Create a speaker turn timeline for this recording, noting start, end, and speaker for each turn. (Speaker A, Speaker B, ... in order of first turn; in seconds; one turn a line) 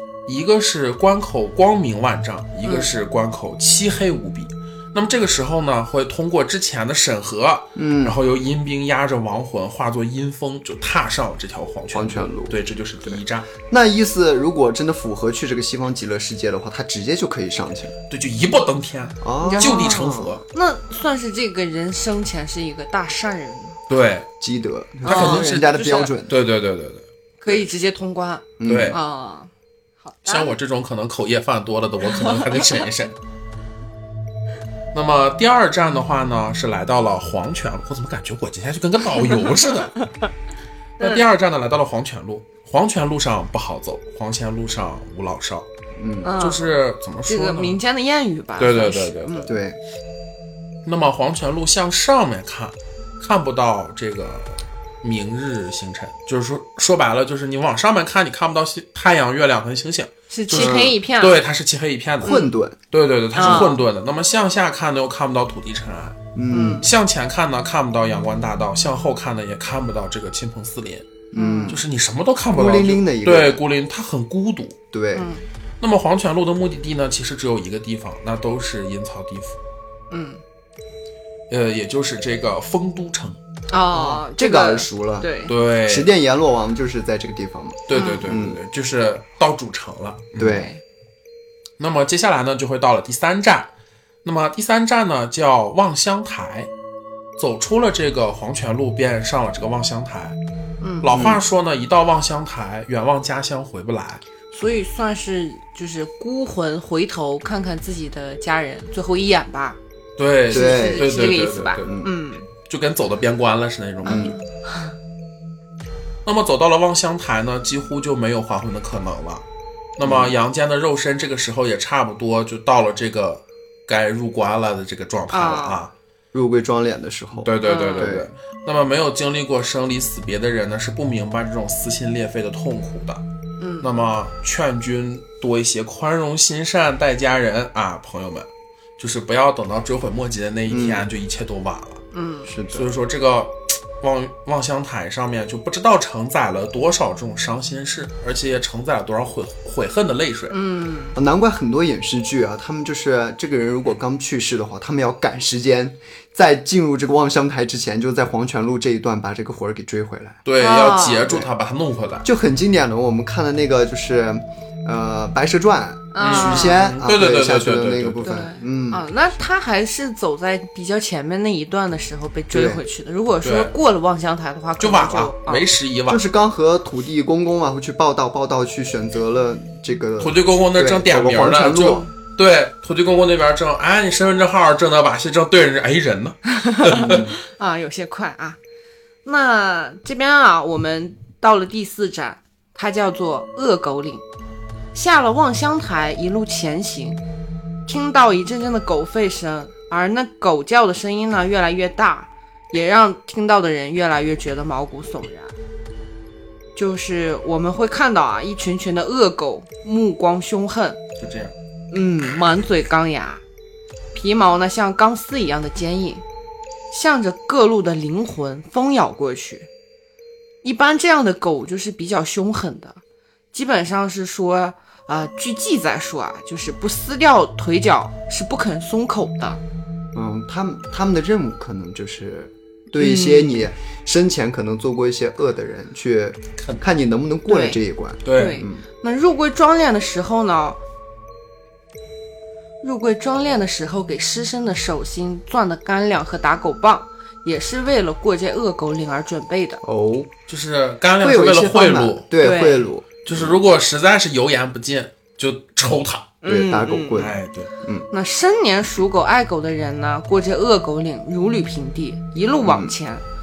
Speaker A: 0.3-13.5
Speaker B: 7.8-8.2
Speaker B: 11.9-17.9
Speaker A: 18.1-20.4
Speaker B: 19.2-20.4
Speaker C: 19.4-23.8
Speaker A: 23.9-24.3
Speaker B: 24.4-26.4
Speaker A: 25.0-27.7
Speaker C: 25.1-26.1
Speaker C: 27.4-29.5
Speaker B: 28.6-29.0
Speaker A: 28.6-29.0
Speaker C: 30.1-30.5
Speaker A: 30.2-33.2
Speaker C: 32.2-32.7
Speaker A: 34.9-40.0
Speaker A: 41.0-45.7
Speaker B: 46.0-46.3
Speaker C: 46.2-46.6
Speaker A: 46.4-47.8
Speaker C: 47.3-49.5
Speaker A: 48.6-49.5
Speaker B: 49.5-49.8
Speaker A: 50.9-66.2
Speaker C: 60.3-61.4
Speaker B: 60.5-60.9
Speaker B: 62.2-62.8
Speaker C: 63.4-63.8
Speaker B: 63.4-63.7
Speaker B: 66.3-66.9
Speaker C: 66.5-66.9
Speaker A: 66.8-71.1
Speaker B: 71.3-71.8
Speaker C: 71.3-71.8
Speaker A: 71.7-74.8
Speaker B: 72.5-73.6
Speaker B: 74.9-75.3
Speaker C: 75.1-75.5
Speaker A: 75.8-79.6
Speaker C: 80.1-80.4
Speaker A: 81.5-83.4
Speaker C: 83.7-85.5
Speaker B: 83.9-85.3
Speaker A: 85.5-86.1
Speaker B: 85.8-88.6
Speaker A: 87.9-90.6
Speaker C: 87.9-88.3
Speaker B: 90.4-90.7
Speaker C: 90.5-90.8
Speaker A: 91.8-93.7
Speaker A: 94.2-96.7
Speaker A: 97.4-100.4
Speaker C: 100.8-101.3
Speaker A: 101.0-104.2
Speaker B: 101.1-101.4
Speaker C: 104.5-109.8
Speaker A: 110.2-112.0
Speaker B: 110.5-111.1
Speaker C: 110.5-112.5
Speaker B: 111.8-112.1
Speaker A: 112.6-114.3
Speaker B: 114.0-114.4
Speaker C: 114.0-115.0
Speaker A: 116.2-119.5
Speaker A: 120.0-125.9
Speaker B: 120.0-120.3
Speaker C: 125.3-125.8
Speaker B: 126.3-128.3
Speaker A: 127.3-133.2
Speaker C: 127.6-128.1
Speaker C: 133.6-133.9
Speaker A: 133.8-142.0
Speaker B: 140.7-141.1
Speaker C: 142.1-142.5
Speaker B: 142.5-142.9
Speaker A: 142.7-150.6
Speaker C: 150.5-151.2
Speaker B: 151.2-160.4
Speaker A: 160.4-162.3
Speaker C: 160.6-161.3
Speaker B: 162.2-169.1
Speaker C: 166.1-166.8
Speaker A: 166.2-168.3
Speaker C: 168.2-175.7
Speaker B: 172.5-172.8
Speaker A: 173.4-173.7
Speaker A: 174.8-176.2
Speaker B: 176.1-182.1
Speaker A: 180.2-187.3
Speaker C: 186.6-188.6
Speaker C: 189.2-194.2
Speaker C: 194.9-197.2
Speaker C: 197.9-205.6
Speaker C: 206.8-211.0
Speaker A: 211.2-211.6
Speaker C: 211.9-213.4
Speaker C: 214.1-216.2
Speaker C: 216.9-219.7
Speaker C: 220.6-223.0
Speaker C: 223.5-229.6
Speaker B: 230.1-238.8
Speaker C: 233.0-233.7
Speaker A: 236.6-236.8
Speaker C: 237.5-237.8
Speaker A: 238.2-238.6
Speaker C: 238.3-240.8
Speaker C: 242.8-249.8
Speaker B: 249.8-250.3
Speaker A: 250.5-252.3
Speaker B: 251.2-253.6
Speaker C: 252.4-252.9
Speaker A: 253.2-256.3
Speaker C: 256.4-257.3
Speaker B: 256.4-258.1
Speaker A: 257.1-257.7
Speaker C: 258.1-263.2
Speaker B: 262.6-262.9